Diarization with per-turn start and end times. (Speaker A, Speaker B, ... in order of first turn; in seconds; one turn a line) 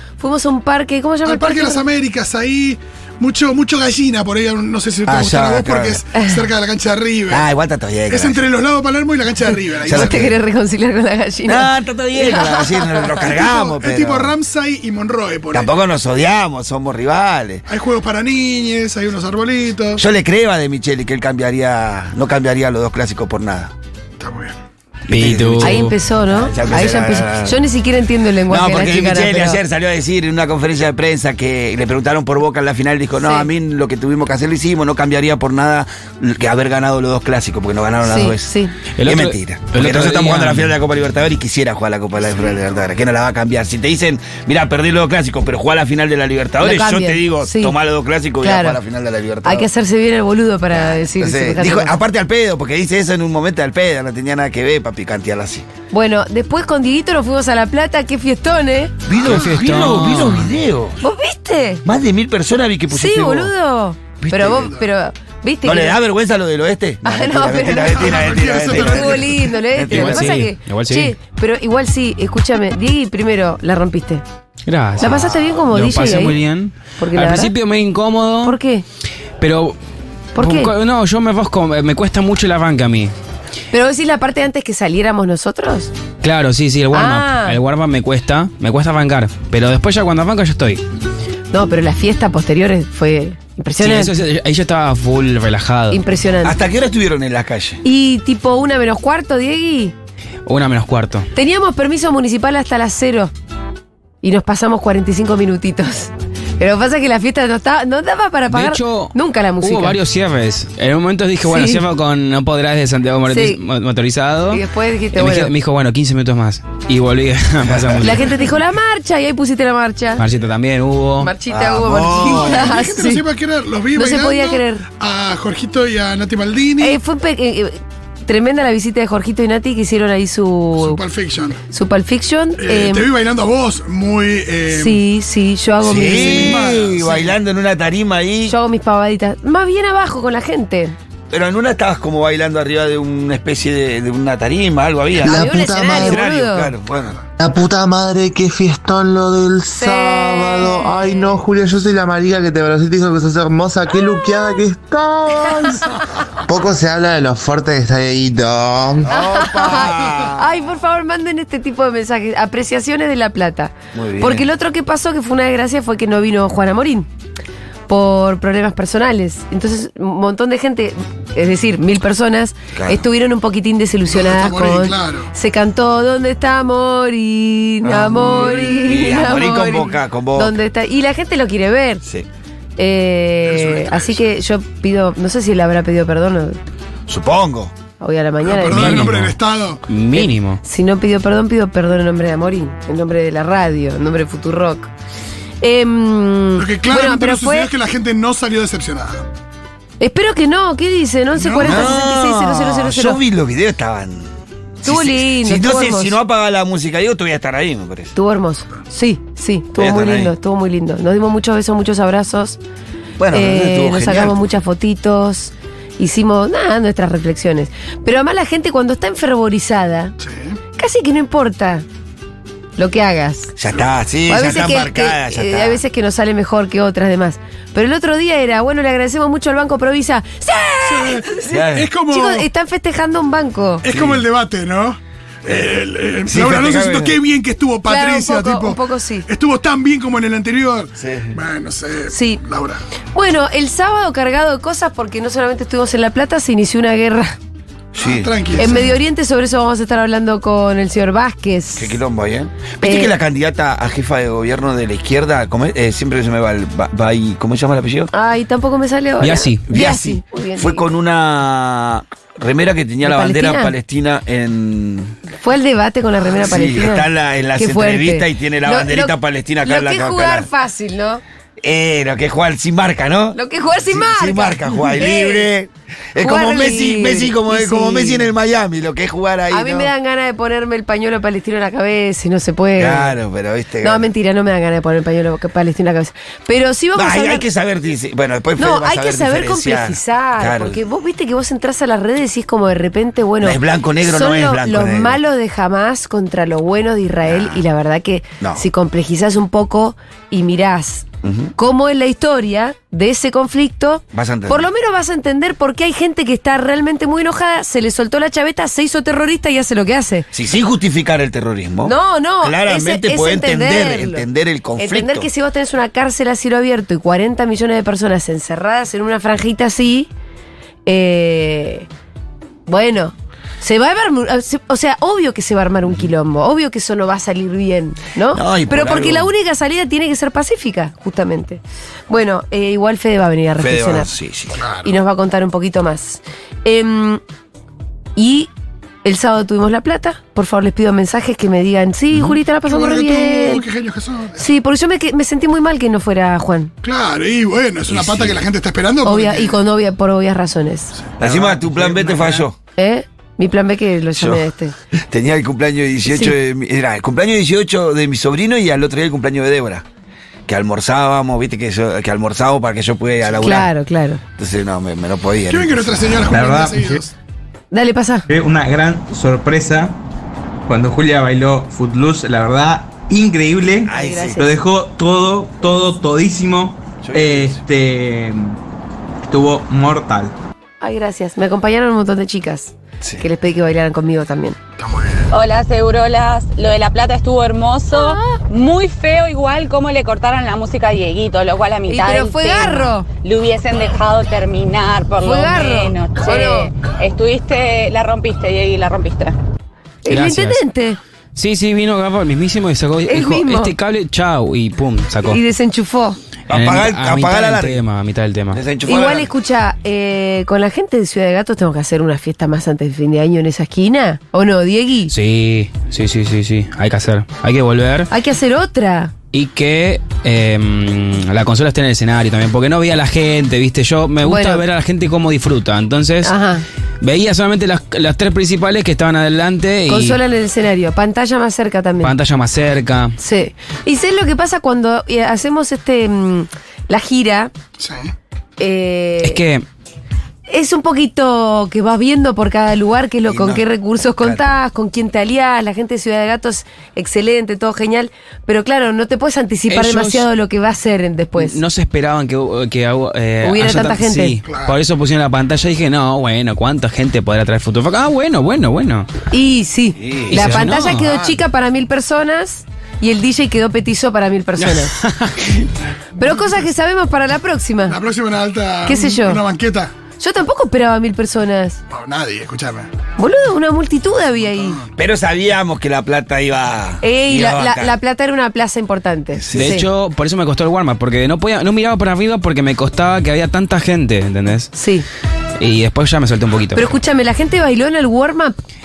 Speaker A: 0.2-1.8
Speaker B: 1.2-7.4
Speaker C: 5.0-6.0
Speaker A: 6.1-6.4
Speaker C: 7.3-8.4
Speaker B: 8.1-10.2
Speaker C: 9.8-10.3
Speaker A: 9.8-13.1
Speaker C: 11.4-14.3
Speaker B: 13.2-15.7
Speaker C: 15.5-17.6
Speaker B: 17.7-20.0
Speaker C: 20.0-23.7
Speaker B: 24.2-24.6
Speaker D: 25.1-25.9
Speaker C: 25.1-27.6
Speaker A: 25.6-29.6
Speaker C: 28.5-38.5
Speaker A: 33.2-33.5
Speaker A: 38.0-38.7
Speaker D: 39.0-40.7
Speaker C: 39.0-49.7
Speaker A: 46.6-47.7
Speaker A: 48.4-48.8
Speaker A: 49.4-51.9
Speaker C: 50.7-55.6
Speaker A: 55.9-58.9
Speaker C: 59.1-61.0
Speaker D: 59.2-60.5
Speaker A: 61.0-61.8
Speaker C: 61.8-63.5
Speaker A: 62.9-66.0
Speaker C: 64.2-64.8
Speaker C: 65.6-70.4
Speaker A: 67.0-74.2
Speaker B: 67.8-69.3
Speaker D: 69.9-71.1
Speaker D: 74.7-78.5
Speaker C: 75.0-75.5
Speaker A: 75.0-76.4
Speaker A: 77.0-77.5
Speaker A: 78.4-78.8
Speaker D: 79.4-79.8
Speaker A: 80.3-80.7
Speaker D: 80.3-83.1
Speaker A: 83.7-85.9
Speaker D: 86.2-90.8
Speaker A: 86.9-87.6
Speaker A: 91.5-94.1
Speaker D: 93.8-96.0
Speaker A: 95.9-96.6
Speaker C: 96.4-97.8
Speaker A: 97.8-99.9
Speaker D: 100.5-101.3
Speaker A: 101.3-103.3
Speaker A: 104.2-110.0
Speaker D: 108.5-114.6
Speaker A: 111.4-111.8
Speaker A: 113.2-113.6
Speaker A: 114.5-115.5
Speaker D: 115.1-118.5
Speaker C: 117.7-118.0
Speaker A: 118.0-120.2
Speaker D: 120.2-121.3
Speaker A: 121.2-123.2
Speaker C: 121.5-122.8
Speaker B: 122.1-127.0
Speaker A: 123.9-124.8
Speaker A: 126.8-131.0
Speaker B: 130.8-131.6
Speaker A: 131.7-133.1
Speaker B: 132.6-135.0
Speaker A: 134.7-137.3
Speaker C: 135.8-138.6
Speaker B: 136.0-137.2
Speaker A: 138.5-140.9
Speaker C: 141.3-147.2
Speaker A: 145.2-146.7
Speaker E: 145.2-146.2
Speaker E: 147.4-155.9
Speaker A: 149.7-151.4
Speaker E: 156.4-159.1
Speaker C: 159.1-160.6
Speaker A: 159.1-167.1
Speaker C: 163.9-164.5
Speaker A: 167.9-182.0
Speaker C: 172.7-173.0
Speaker B: 174.1-175.3
Speaker C: 177.8-180.5
Speaker A: 182.8-186.6
Speaker B: 183.4-184.2
Speaker C: 187.1-187.7
Speaker A: 188.0-189.1
Speaker B: 188.4-189.8
Speaker D: 188.8-189.3
Speaker D: 189.9-190.6
Speaker A: 190.1-194.9
Speaker A: 195.6-197.7
Speaker B: 196.6-199.3
Speaker A: 200.0-203.2
Speaker B: 201.3-201.9
Speaker C: 201.6-204.3
Speaker A: 204.8-206.2
Speaker C: 204.8-208.1
Speaker A: 208.1-212.6
Speaker C: 209.8-210.3
Speaker C: 213.2-214.4
Speaker A: 213.3-220.1
Speaker B: 220.2-220.6
Speaker A: 220.8-221.8
Speaker A: 222.8-223.5
Speaker C: 223.6-225.8
Speaker A: 224.3-233.9
Speaker B: 230.8-232.5
Speaker C: 231.5-231.9
Speaker B: 233.8-242.8
Speaker C: 233.9-234.2
Speaker C: 236.2-237.2
Speaker A: 237.8-239.3
Speaker C: 241.0-241.4
Speaker A: 242.1-242.4
Speaker A: 243.1-247.3
Speaker C: 247.9-248.9
Speaker B: 248.0-248.9
Speaker A: 248.6-252.0
Speaker C: 251.8-258.1
Speaker A: 252.8-253.1
Speaker A: 258.1-260.8
Speaker D: 259.2-259.6
Speaker C: 259.7-265.2
Speaker A: 263.0-263.7
Speaker A: 265.4-271.2
Speaker C: 266.3-270.5
Speaker C: 271.6-273.4
Speaker A: 273.3-275.5
Speaker C: 273.9-279.9
Speaker A: 276.2-278.2
Speaker A: 279.5-283.1
Speaker C: 282.8-284.1
Speaker A: 283.8-287.4
Speaker C: 286.9-290.8
Speaker A: 288.6-301.1
Speaker C: 293.4-295.2
Speaker C: 297.2-297.6
Speaker C: 301.2-301.5
Speaker A: 301.6-310.3
Speaker C: 304.1-304.7
Speaker C: 310.3-315.3
Speaker A: 311.8-314.2
Speaker A: 314.8-320.1
Speaker A: 320.9-321.9
Speaker A: 322.7-334.1
Speaker C: 328.3-329.3
Speaker C: 333.6-334.6
Speaker B: 334.6-334.9
Speaker A: 334.8-337.2
Speaker A: 338.1-338.5
Speaker A: 339.0-343.6
Speaker B: 342.6-344.5
Speaker A: 344.4-346.7
Speaker B: 346.8-349.6
Speaker C: 347.9-348.4
Speaker A: 349.0-350.9
Speaker C: 351.2-352.5
Speaker F: 351.2-352.4
Speaker A: 352.8-354.7
Speaker C: 354.1-354.4
Speaker C: 355.0-359.8
Speaker A: 356.1-356.3
Speaker C: 360.5-363.7
Speaker A: 363.4-364.2
Speaker C: 364.4-366.2
Speaker B: 365.5-367.1
Speaker F: 366.3-367.0
Speaker A: 367.7-368.2
Speaker F: 368.3-370.0
Speaker F: 370.7-378.6
Speaker C: 373.8-374.5
Speaker A: 373.9-374.5
Speaker C: 377.0-377.6
Speaker F: 379.3-380.3
Speaker A: 380.8-384.6
Speaker G: 385.3-399.4
Speaker A: 387.9-388.4
Speaker A: 391.9-393.1
Speaker A: 395.2-396.7
Speaker A: 400.0-401.0
Speaker D: 400.1-400.6
Speaker D: 401.3-405.4
Speaker A: 403.1-403.7
Speaker A: 405.2-406.2
Speaker C: 406.5-407.8
Speaker D: 406.5-408.6
Speaker C: 408.5-409.3
Speaker A: 408.9-415.1
Speaker D: 415.1-418.1
Speaker A: 418.1-419.1
Speaker D: 419.3-426.3
Speaker A: 424.2-424.6
Speaker A: 426.2-426.6
Speaker D: 427.0-430.2
Speaker A: 429.9-432.1
Speaker D: 432.0-433.1
Speaker A: 433.2-437.5
Speaker B: 437.8-438.1
Speaker A: 438.6-439.4
Speaker D: 439.2-439.6
Speaker A: 440.5-451.6
Speaker C: 443.3-443.6
Speaker D: 449.7-450.3
Speaker D: 451.4-459.1
Speaker A: 453.4-454.4
Speaker B: 454.4-454.8
Speaker A: 459.3-464.9
Speaker C: 460.0-461.0
Speaker D: 460.3-461.1
Speaker D: 464.6-465.6
Speaker A: 466.2-468.0
Speaker B: 466.2-466.5
Speaker B: 467.9-469.9
Speaker A: 468.9-469.4
Speaker A: 470.2-471.8
Speaker B: 471.9-472.9
Speaker A: 473.2-474.8
Speaker B: 474.5-474.9
Speaker C: 475.0-477.9
Speaker A: 477.0-479.9
Speaker C: 479.4-479.8
Speaker D: 479.5-484.7
Speaker A: 484.7-485.1
Speaker D: 485.6-486.9
Speaker A: 486.7-488.6